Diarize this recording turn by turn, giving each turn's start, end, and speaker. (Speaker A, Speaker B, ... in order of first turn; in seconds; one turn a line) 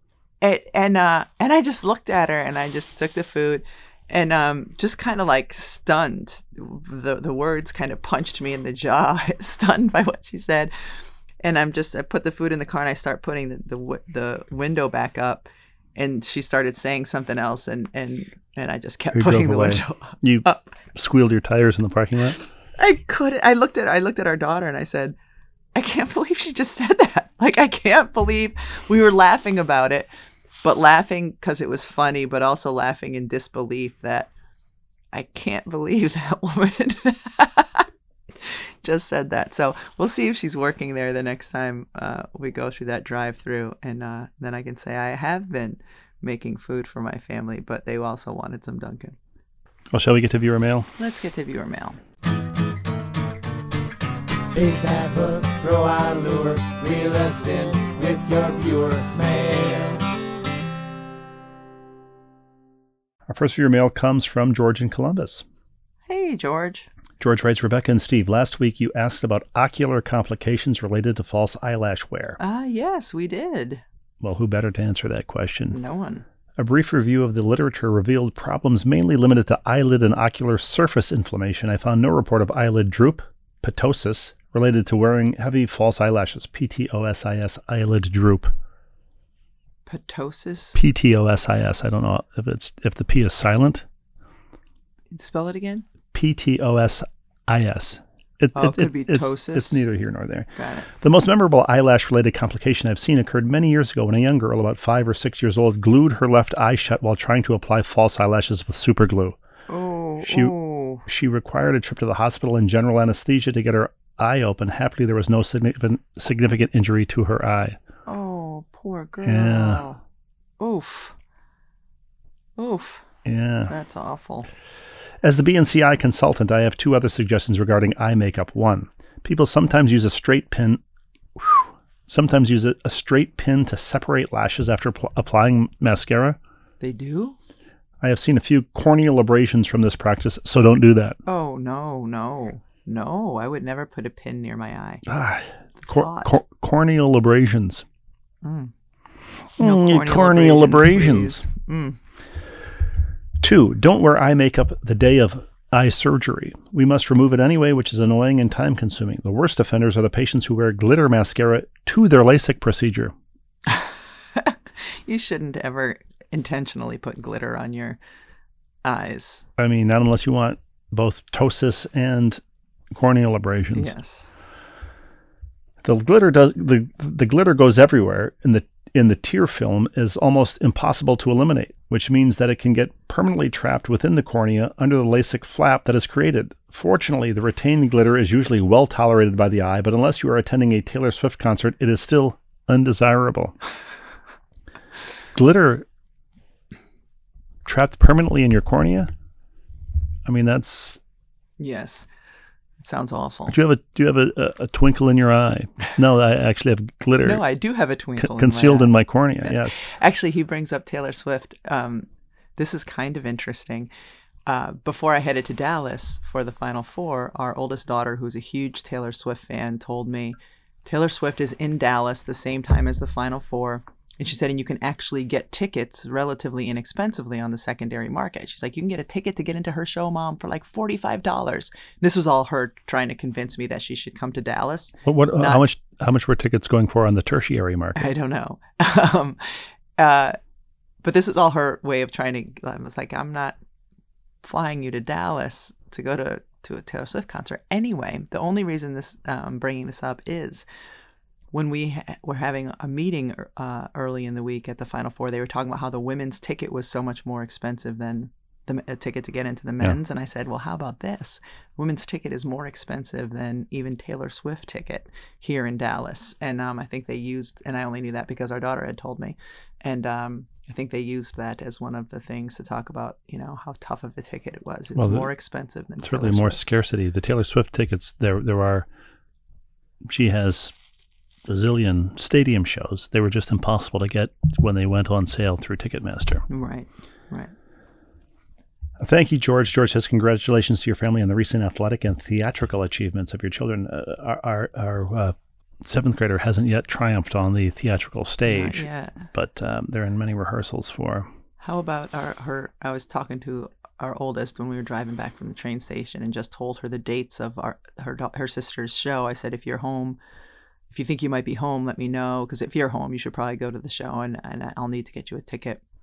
Speaker A: 0.4-10.7
Speaker A: 11.4-20.6
Speaker B: 19.1-22.4
Speaker A: 22.8-25.2
Speaker A: 25.8-30.1
Speaker A: 30.6-34.3
Speaker A: 35.1-37.9
Speaker A: 38.4-49.2
Speaker B: 49.9-50.9
Speaker A: 51.0-52.0
Speaker C: 54.5-60.0
Speaker B: 63.3-65.4
Speaker A: 66.1-66.9
Speaker B: 67.2-72.4
Speaker A: 72.4-73.8
Speaker B: 74.2-75.8
Speaker A: 75.7-76.2
Speaker B: 76.6-88.5
Speaker A: 89.9-90.8
Speaker B: 90.8-93.8
Speaker A: 95.1-95.9
Speaker B: 96.1-109.4
Speaker A: 98.5-99.8
Speaker A: 100.6-100.9
Speaker A: 109.7-111.0
Speaker B: 110.2-117.8
Speaker A: 118.1-120.0
Speaker B: 119.2-119.8
Speaker A: 120.6-121.2
Speaker A: 122.6-123.1
Speaker B: 123.2-123.7
Speaker A: 123.7-124.5
Speaker B: 125.2-130.8
Speaker B: 131.4-136.4
Speaker A: 136.8-137.4
Speaker B: 138.0-141.2
Speaker A: 141.2-145.0
Speaker B: 145.1-147.8
Speaker A: 145.8-146.3
Speaker A: 148.4-148.7
Speaker B: 149.6-151.4
Speaker A: 149.6-152.0
Speaker B: 153.4-163.1
Speaker A: 163.7-168.0
Speaker A: 168.8-169.5
Speaker B: 169.6-172.4
Speaker B: 172.9-173.9
Speaker A: 173.8-174.3
Speaker B: 175.8-193.6
Speaker B: 195.3-195.8
Speaker B: 197.7-199.1
Speaker B: 200.3-201.0
Speaker A: 201.6-202.1
Speaker A: 202.8-203.6
Speaker B: 203.5-207.4
Speaker A: 207.2-208.9
Speaker B: 208.2-209.8
Speaker A: 209.4-213.9
Speaker A: 214.5-235.6
Speaker B: 235.1-238.1
Speaker A: 237.9-240.4
Speaker A: 241.0-243.6
Speaker A: 244.4-250.7
Speaker A: 251.5-276.6
Speaker B: 275.0-275.3
Speaker B: 276.0-278.9
Speaker B: 280.1-280.7
Speaker B: 281.5-286.4
Speaker A: 286.5-287.5
Speaker B: 289.0-301.3
Speaker A: 298.5-299.2
Speaker A: 301.6-310.2
Speaker A: 310.9-315.8